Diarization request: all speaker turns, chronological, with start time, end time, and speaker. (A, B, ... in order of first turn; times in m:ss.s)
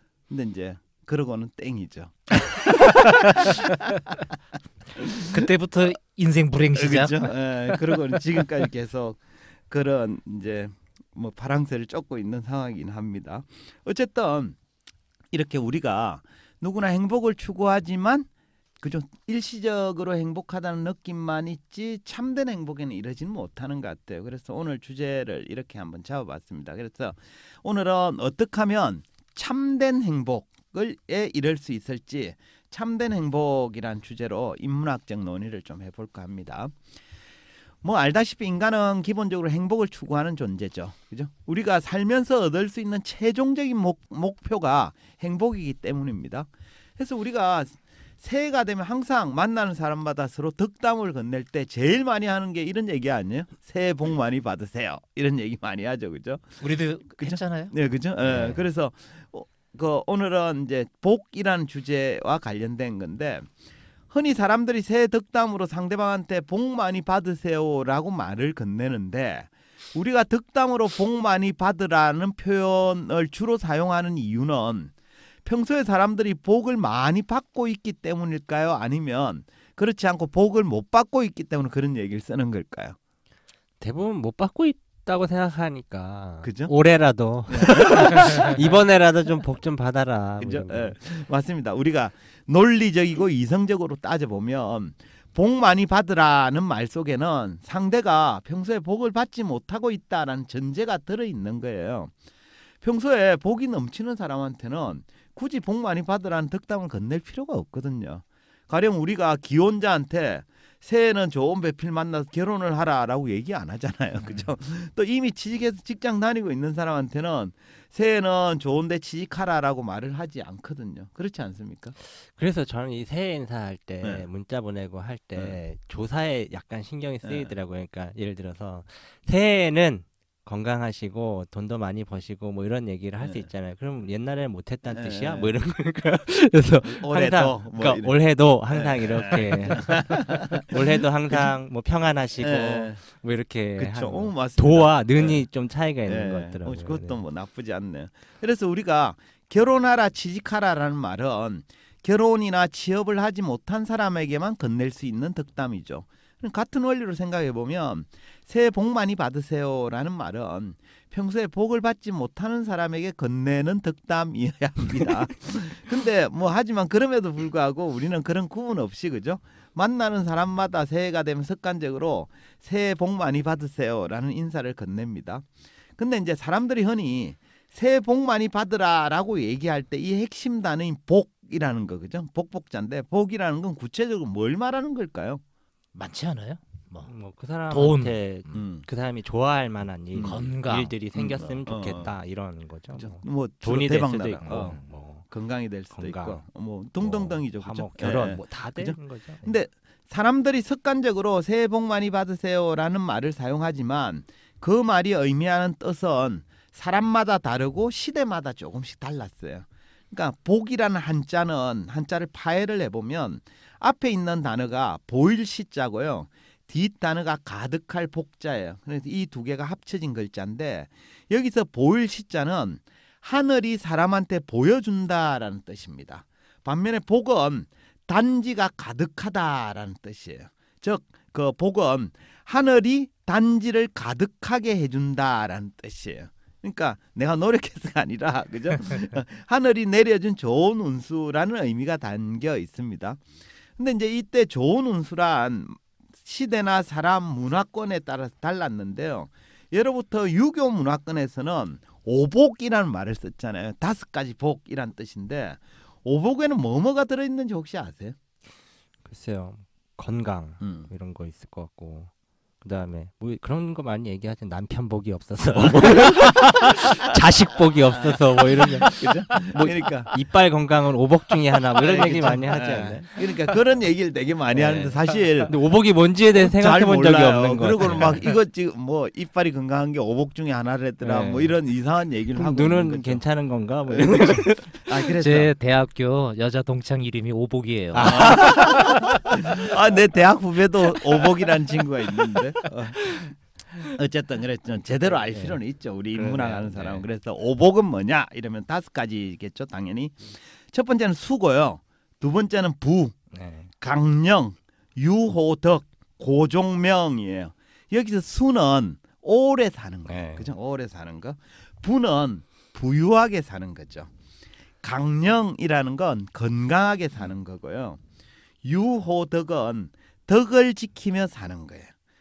0:00.3-0:04.2 A
0:02.8-0:04.0 B
0:05.0-0:05.4 A
0:05.2-0:08.4 B
0:06.8-0:14.6 A
0:15.3-0:18.3 A
0:18.8-0:36.7 A
0:37.8-1:03.5 A
0:56.6-0:57.7 B
1:04.1-1:14.9 A
1:15.4-1:23.0 A
1:23.8-1:31.0 C
1:26.4-1:26.7 A
1:27.5-1:28.8 A
1:30.4-1:42.1 A
1:42.8-2:02.0 A
2:02.1-2:27.2 C
2:07.2-2:07.5 A
2:13.2-2:13.5 A
2:14.9-2:15.6 A
2:16.8-2:18.2 A
2:18.7-2:21.5 A
2:22.4-2:23.0 A
2:23.8-2:25.5 A
2:26.1-3:05.4 A
3:06.0-3:07.1 B
3:07.0-3:15.3 C
3:07.7-3:08.6 B
3:08.5-3:08.9 A
3:10.1-3:10.4 A
3:10.2-3:11.0 B
3:11.1-3:12.1 A
3:12.9-4:03.2 A
3:14.4-3:14.9 B
3:15.9-3:16.4 C
3:17.0-3:19.6 C
4:03.8-4:18.2 A
4:19.1-4:22.1 C
4:20.6-4:20.9 A
4:22.6-4:33.6 C
4:25.6-4:26.5 A
4:27.9-4:30.1 A
4:31.8-4:35.5 A
4:34.5-4:38.3 C
4:36.3-4:43.2 A
4:41.0-4:41.6 C
4:42.4-4:45.0 C
4:43.9-4:45.5 A
4:45.2-4:49.2 B
4:47.9-4:49.4 C
4:48.0-4:53.2 A
4:53.9-5:03.2 A
4:55.1-4:55.6 C
4:56.1-4:57.0 C
5:03.4-5:03.7 B
5:03.7-5:14.1 A
5:10.1-5:10.5 C
5:14.8-5:18.0 A
5:18.6-5:21.9 A